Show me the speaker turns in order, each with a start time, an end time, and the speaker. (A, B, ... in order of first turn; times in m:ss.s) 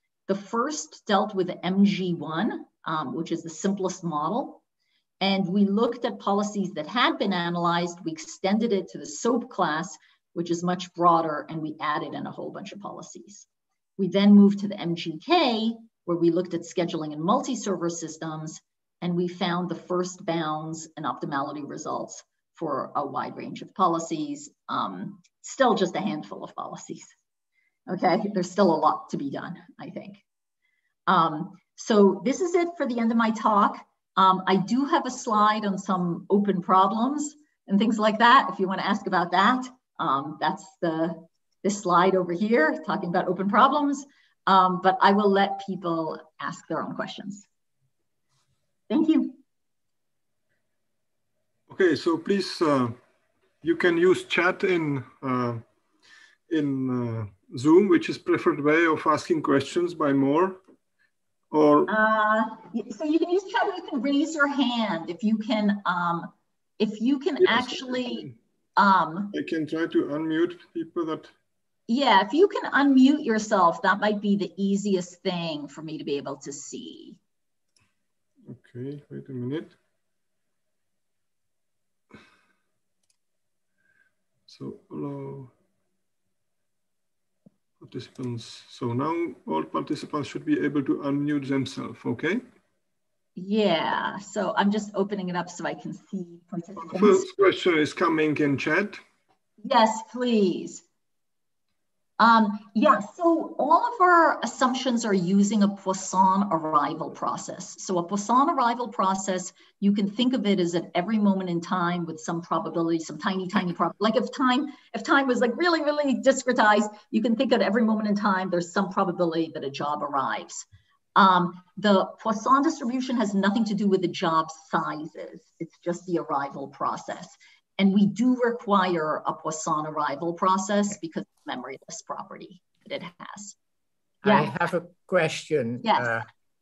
0:00.3-0:04.6 A
0:05.2-0:13.4 A
0:14.0-0:27.1 A
0:27.9-0:30.2 A
0:31.1-0:47.5 A
0:48.9-0:49.4 A
0:51.7-0:52.9 B
0:53.6-0:55.6 B
0:56.5-1:00.6 B
1:01.5-1:01.9 B
1:01.9-1:09.3 A
1:07.4-1:08.3 B
1:09.3-1:11.3 B
1:11.9-1:17.2 A
1:18.5-1:19.8 B
1:24.5-1:25.5 B
1:27.8-1:32.4 B
1:33.4-1:37.3 A
1:36.8-1:39.0 B
1:39.6-1:40.8 A
1:42.2-2:13.6 A
2:14.2-2:16.2 C
2:14.2-2:14.5 A
2:15.8-2:16.2 A